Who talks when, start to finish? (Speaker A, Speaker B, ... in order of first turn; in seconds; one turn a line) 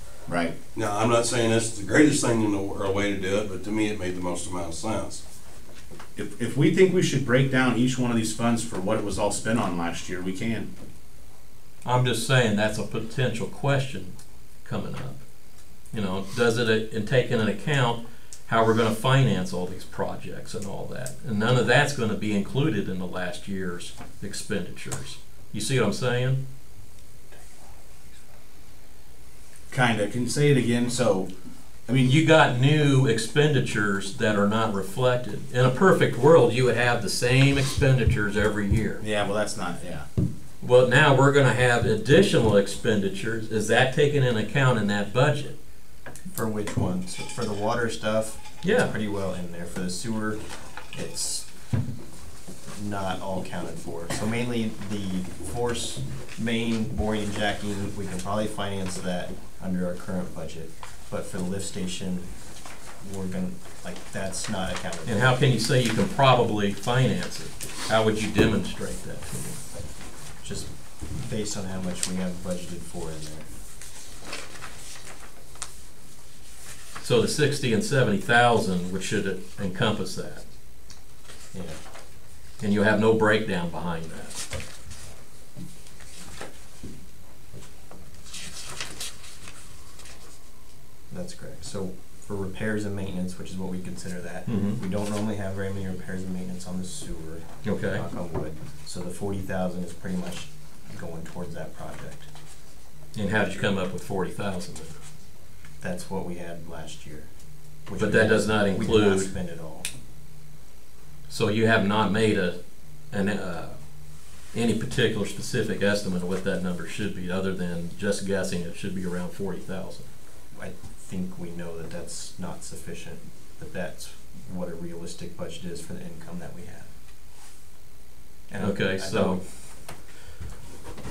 Speaker A: 0.3-0.6
Speaker B: 0.7-5.2
Speaker A: 6.2-10.7
Speaker C: 11.8-15.2
Speaker C: 15.9-26.4
Speaker A: 29.7-31.3
Speaker A: 31.9-32.1
Speaker C: 32.0-39.0
Speaker A: 39.0-40.0
Speaker C: 40.6-45.6
Speaker D: 46.3-50.4
Speaker C: 48.6-48.9
Speaker D: 50.9-51.5
Speaker D: 52.7-62.3
Speaker D: 63.0-65.4
Speaker C: 65.0-69.6
Speaker D: 70.4-73.5
Speaker C: 77.0-80.4
Speaker D: 81.5-81.8
Speaker C: 82.6-84.4
Speaker D: 91.1-102.3
Speaker C: 94.5-94.8
Speaker C: 97.6-98.0
Speaker C: 103.1-105.0
Speaker D: 105.8-107.3
Speaker D: 107.9-109.8
Speaker C: 107.9-109.3
Speaker C: 111.3-112.6
Speaker C: 113.1-113.8
Speaker C: 114.5-120.1
Speaker D: 120.5-126.9
Speaker D: 128.5-129.4
Speaker C: 128.6-129.4